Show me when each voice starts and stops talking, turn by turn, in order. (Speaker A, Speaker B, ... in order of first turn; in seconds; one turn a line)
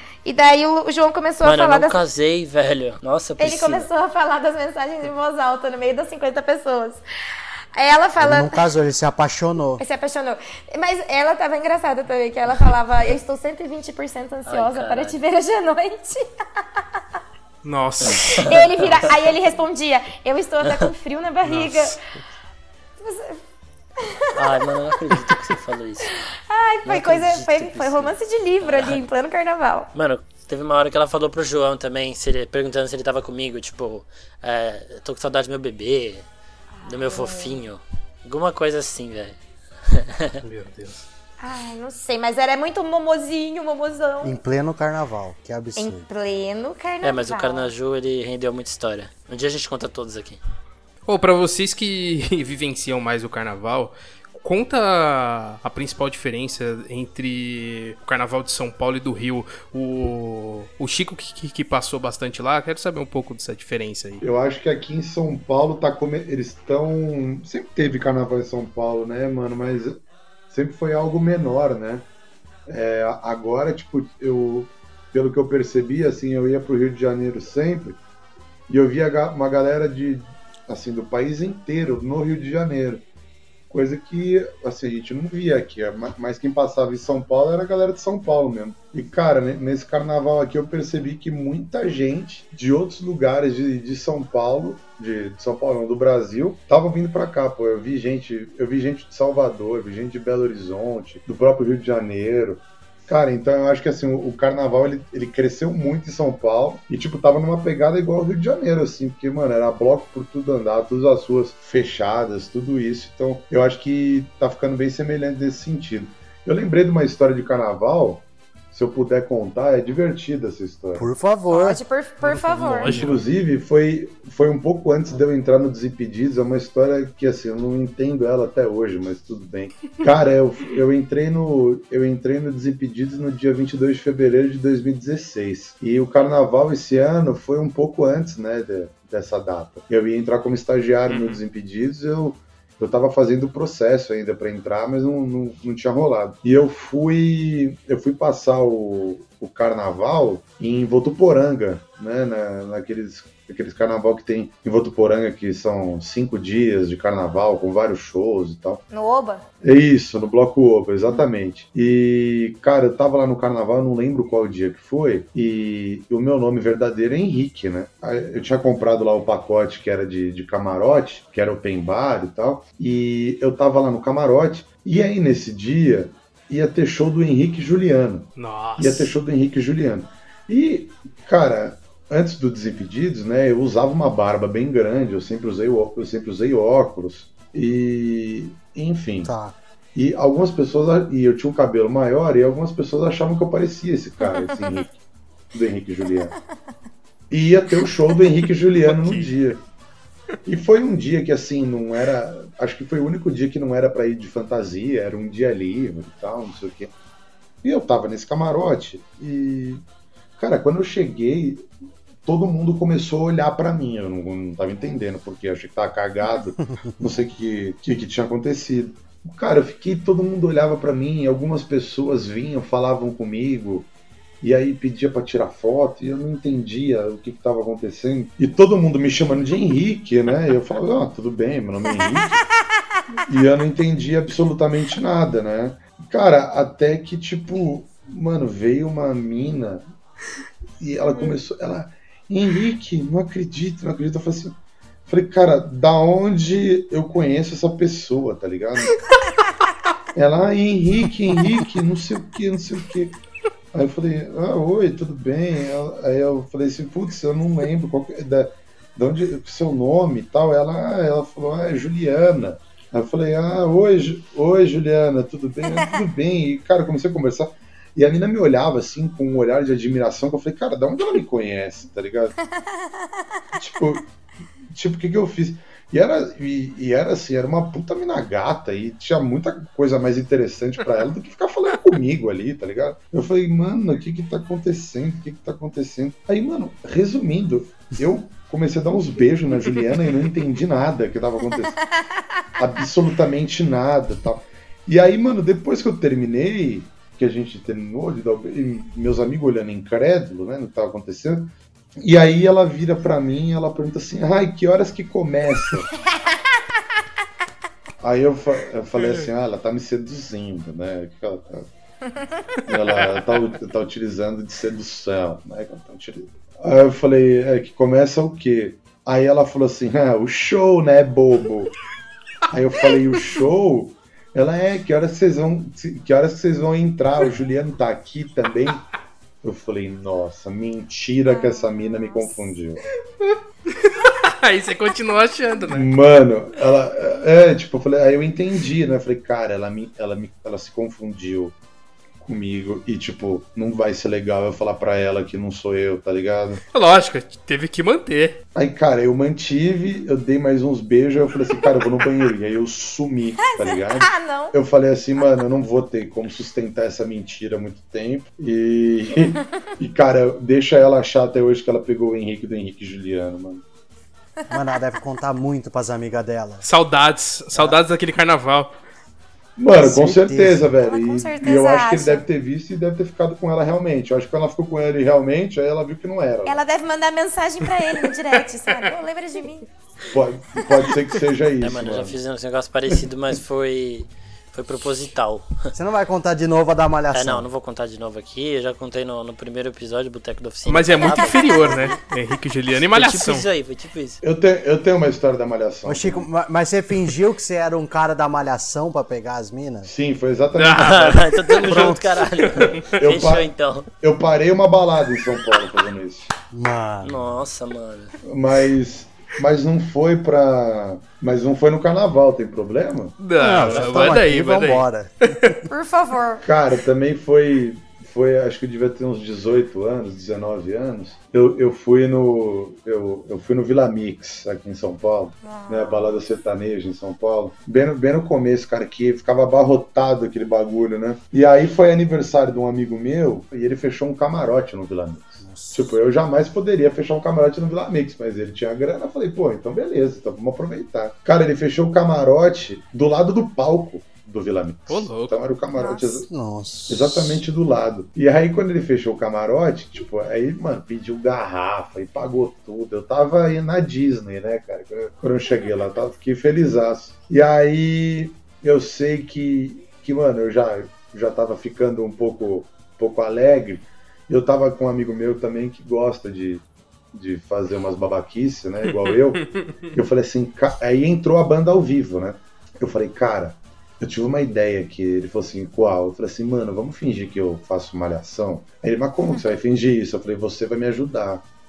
Speaker A: 0.2-2.0
Speaker B: 1.4-3.9
Speaker A: 3.4-7.0
Speaker A: 7.7-8.6
Speaker C: 8.2-9.8
Speaker A: 9.8-17.0
Speaker B: 14.5-15.2
Speaker D: 17.6-18.9
Speaker A: 18.1-22.0
Speaker B: 18.2-18.6
Speaker D: 21.5-21.7
Speaker A: 23.0-23.4
Speaker A: 24.0-24.6
Speaker B: 24.3-26.1
Speaker A: 26.1-29.9
Speaker B: 26.8-29.0
Speaker B: 29.9-36.3
Speaker A: 36.8-37.6
Speaker B: 36.8-40.4
Speaker D: 40.4-41.0
Speaker A: 41.4-44.4
Speaker C: 44.2-46.1
Speaker A: 45.8-47.7
Speaker B: 47.0-50.4
Speaker D: 51.0-64.2
Speaker E: 64.2-70.0
Speaker E: 70.5-72.1
Speaker E: 72.7-78.0
Speaker E: 78.7-83.0
Speaker E: 83.7-121.1
Speaker C: 121.0-121.8
Speaker A: 121.5-122.9
Speaker D: 122.2-123.2
Speaker E: 122.8-158.8
Speaker D: 141.1-141.4
Speaker A: 158.9-159.4
Speaker E: 159.6-189.3
Speaker D: 178.3-179.1
Speaker C: 189.2-189.6
Speaker E: 189.9-195.0
Speaker E: 195.5-196.3
Speaker E: 197.3-199.6
Speaker D: 198.8-199.3
Speaker E: 200.4-206.9
Speaker E: 207.6-209.8
Speaker E: 210.4-211.7
Speaker E: 212.2-223.9
Speaker E: 224.4-232.4
Speaker E: 233.3-239.8
Speaker E: 240.8-244.6
Speaker E: 245.1-249.0
Speaker E: 250.1-253.2
Speaker E: 253.7-272.4
Speaker A: 272.6-273.1
Speaker E: 273.6-274.1
Speaker E: 274.7-291.8
Speaker E: 292.6-305.9
Speaker E: 308.0-311.7
Speaker D: 309.0-309.3
Speaker E: 312.7-321.7
Speaker D: 312.9-313.2
Speaker E: 322.5-328.8
Speaker E: 329.4-332.8
Speaker A: 331.3-332.4
Speaker D: 333.2-335.9
Speaker E: 335.7-341.6
Speaker E: 342.2-346.6
Speaker D: 346.7-348.4
Speaker E: 348.5-363.6
Speaker A: 353.4-354.5
Speaker C: 364.5-366.6
Speaker D: 366.6-368.7
Speaker E: 369.6-376.6
Speaker C: 369.7-370.7
Speaker A: 370.8-372.2
Speaker A: 376.4-379.7
Speaker E: 380.1-382.2
Speaker B: 381.6-385.7
Speaker C: 385.7-387.5
Speaker B: 387.1-391.9
Speaker D: 390.6-393.4
Speaker A: 391.0-391.9
Speaker B: 392.9-394.2
Speaker E: 394.2-396.3
Speaker C: 395.9-399.9
Speaker E: 399.9-402.0
Speaker D: 400.5-403.0
Speaker B: 400.8-403.9
Speaker E: 402.9-406.3
Speaker C: 406.5-407.4
Speaker B: 407.0-408.1
Speaker E: 408.2-413.2
Speaker D: 413.2-415.5
Speaker C: 413.4-415.6
Speaker B: 413.5-414.1
Speaker A: 415.7-416.4
Speaker E: 416.4-446.3
Speaker A: 425.4-426.1
Speaker C: 435.4-436.0
Speaker D: 444.9-445.3
Speaker A: 445.8-446.2
Speaker C: 446.3-447.4
Speaker E: 446.9-481.4
Speaker D: 468.8-469.7